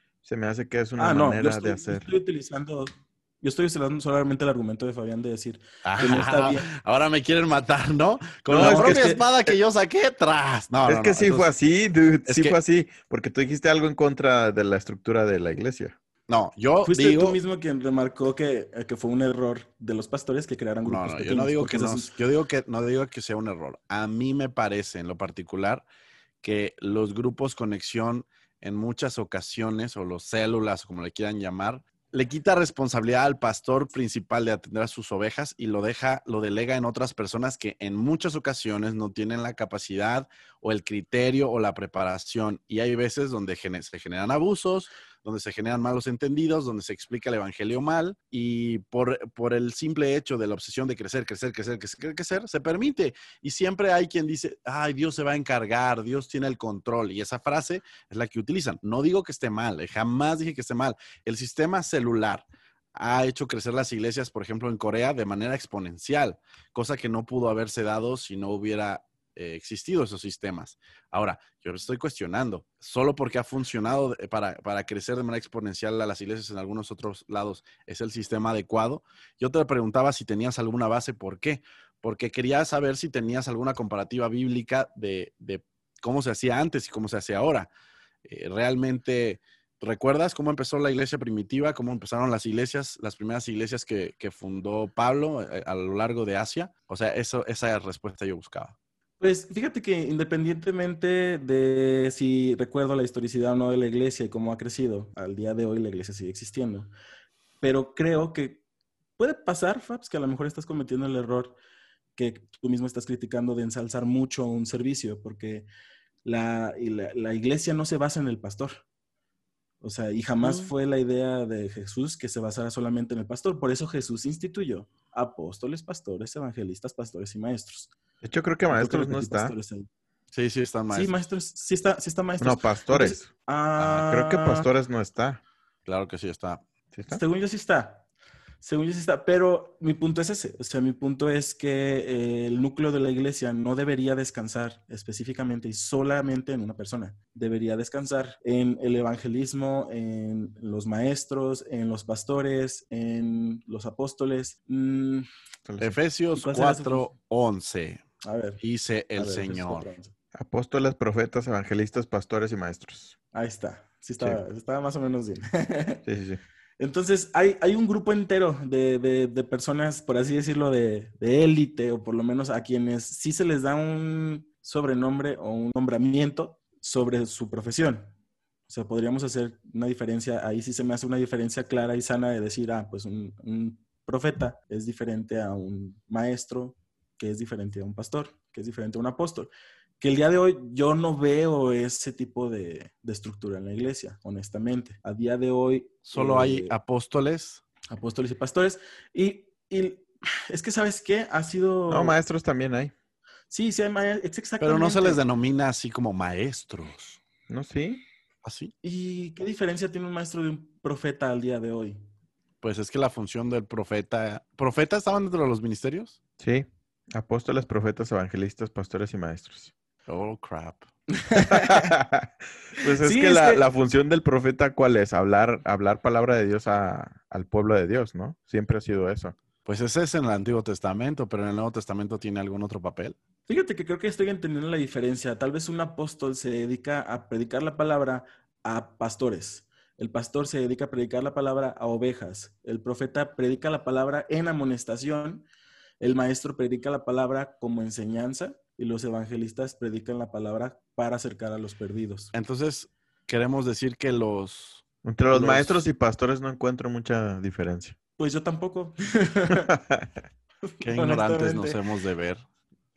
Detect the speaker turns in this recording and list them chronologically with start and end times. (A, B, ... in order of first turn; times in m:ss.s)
0:00.2-0:02.1 A
0:01.0-0:06.7 B
0:05.8-0:11.5 C
0:08.5-0:09.2 B
0:08.5-0:09.6 A
0:10.9-0:16.0 A
0:12.3-0:12.6 C
0:16.3-0:17.4 C
0:16.8-0:22.1 B
0:20.8-0:25.8 C
0:26.4-1:27.7 C
1:28.2-1:38.8 C
1:39.2-1:46.9 B
1:47.6-1:48.6 B
1:49.2-1:51.6 B
1:52.2-1:55.7 B
1:56.2-1:58.8 B
1:59.8-2:07.9 B
2:00.4-2:00.7 C
2:08.2-2:09.5 A
2:08.7-2:09.9 B
2:10.3-2:11.3 C
2:10.9-2:14.7 B
2:12.4-2:13.3 A
2:13.8-2:15.4 A
2:15.9-2:16.6 C
2:16.9-2:17.2 A
2:17.1-2:18.1 B
2:18.6-2:35.3 B
2:35.7-2:36.0 A
2:35.8-2:38.0 C
2:36.4-2:37.1 B
2:38.2-2:38.6 B
2:38.6-2:39.9 C
2:39.2-2:40.1 B
2:40.3-2:43.2 A
2:43.3-2:46.0 B
2:46.1-2:46.4 A
2:46.8-2:58.1 B
2:58.7-3:16.8 B
3:16.0-3:17.6 C
3:17.9-3:22.2 B
3:21.9-3:22.9 A
3:23.5-3:25.2 B
3:24.6-3:27.2 C
3:27.5-3:28.0 A
3:28.4-3:28.7 C
3:28.8-3:32.0 B
3:32.6-3:36.2 C
3:36.4-3:39.7 A
3:40.1-3:40.9 C
3:41.2-3:41.9 B
3:41.4-3:49.4 A
3:43.0-3:43.6 B
3:49.7-3:53.2 C
3:53.5-4:05.5 B
4:06.0-4:12.3 B
4:12.3-4:15.8 C
4:15.0-4:18.0 A
4:18.2-4:19.7 B
4:19.7-4:20.2 A
4:20.8-4:21.8 B
4:20.8-4:22.4 C